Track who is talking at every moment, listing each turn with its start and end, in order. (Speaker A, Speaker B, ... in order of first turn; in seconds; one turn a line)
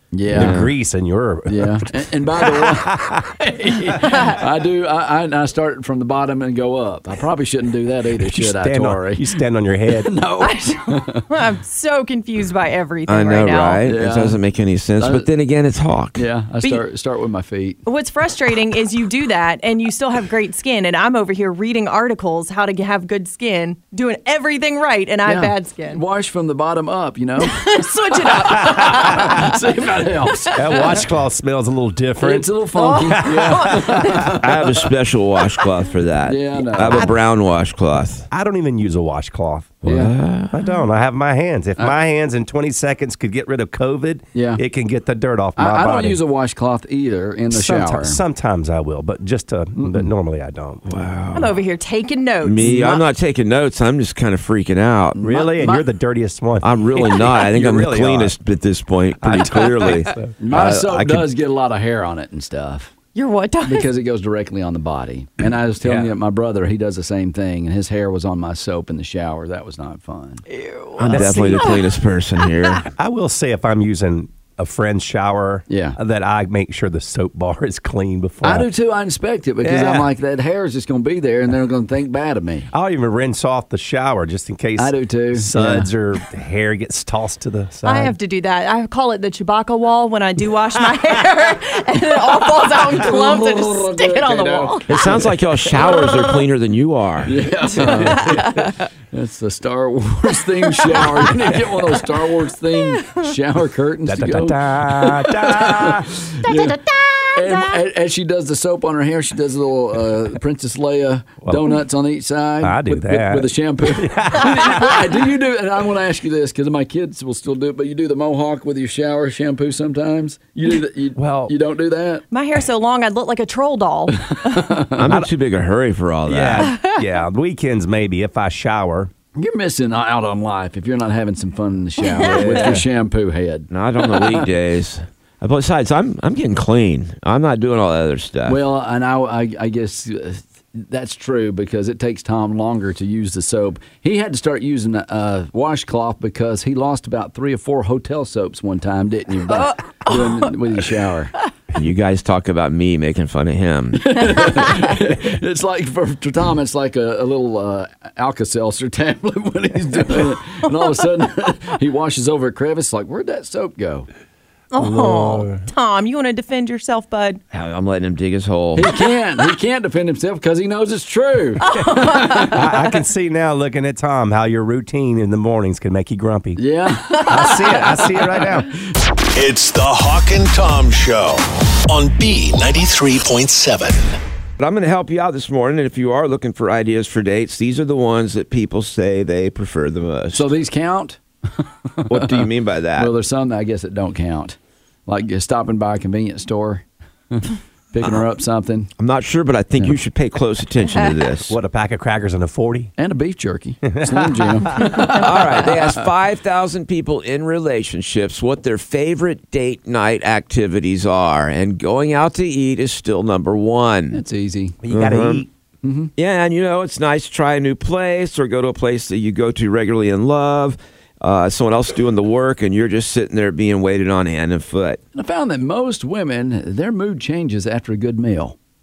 Speaker A: 0.1-0.6
Speaker B: 0.3-3.3
Speaker C: 0.3-0.7
Speaker A: 1.5-9.3
Speaker B: 8.2-10.2
Speaker A: 9.9-11.3
Speaker D: 10.4-13.8
Speaker C: 13.1-16.3
Speaker A: 13.8-14.4
Speaker A: 15.0-15.3
Speaker A: 16.2-17.8
Speaker D: 17.9-26.0
Speaker A: 25.2-30.8
Speaker D: 27.4-29.6
Speaker D: 30.2-31.0
Speaker B: 30.6-32.5
Speaker A: 32.2-34.9
Speaker D: 32.7-34.2
Speaker B: 33.0-34.2
Speaker C: 34.4-38.3
Speaker A: 36.3-37.1
Speaker B: 38.3-46.2
Speaker A: 39.9-40.1
Speaker C: 39.9-40.5
Speaker A: 44.3-44.6
Speaker A: 45.6-48.2
Speaker B: 47.5-51.0
Speaker A: 49.8-50.1
Speaker C: 50.9-51.6
Speaker D: 51.4-53.0
Speaker C: 52.4-55.2
Speaker A: 55.2-55.9
Speaker B: 55.2-58.4
Speaker C: 56.6-61.3
Speaker B: 59.2-60.3
Speaker A: 60.4-63.0
Speaker D: 63.1-63.9
Speaker A: 63.6-70.4
Speaker B: 65.8-66.1
Speaker D: 70.5-72.5
Speaker C: 71.0-72.9
Speaker B: 71.1-71.7
Speaker B: 73.0-78.7
Speaker A: 75.7-76.0
Speaker A: 78.4-82.7
Speaker B: 79.6-80.1
Speaker B: 82.7-88.2
Speaker A: 84.8-85.9
Speaker D: 87.8-95.1
Speaker A: 92.2-95.2
Speaker C: 94.9-97.4
Speaker D: 95.8-96.4
Speaker A: 97.2-106.8
Speaker D: 97.7-98.7
Speaker D: 100.8-101.3
Speaker D: 102.7-103.3
Speaker B: 104.1-106.1
Speaker D: 106.4-107.8
Speaker A: 107.3-122.2
Speaker B: 111.4-111.8
Speaker B: 112.6-115.0
Speaker B: 121.2-121.5
Speaker D: 122.3-124.6
Speaker A: 124.3-125.1
Speaker C: 125.0-126.7
Speaker B: 126.3-129.1
Speaker D: 126.6-127.0
Speaker A: 129.3-134.5
Speaker D: 132.0-132.7
Speaker B: 132.3-132.8
Speaker C: 132.6-132.8
Speaker C: 133.7-138.6
Speaker A: 138.5-151.3
Speaker D: 149.5-150.6
Speaker C: 151.7-154.2
Speaker A: 154.0-164.1
Speaker D: 164.7-167.4
Speaker B: 164.8-165.7
Speaker C: 167.5-168.9
Speaker A: 168.8-172.7
Speaker D: 171.6-172.6
Speaker B: 172.5-176.6
Speaker A: 176.6-178.5
Speaker B: 177.2-178.7
Speaker E: 179.3-184.2
Speaker C: 184.6-190.5
Speaker A: 190.3-198.9
Speaker C: 192.1-193.1
Speaker C: 199.0-201.6
Speaker B: 201.5-202.9
Speaker A: 203.0-206.0
Speaker B: 203.9-204.9
Speaker C: 205.1-214.2
Speaker A: 214.1-214.8
Speaker B: 214.8-215.5
Speaker C: 214.9-215.4
Speaker A: 215.8-216.1
Speaker C: 216.2-225.0
Speaker A: 225.1-228.6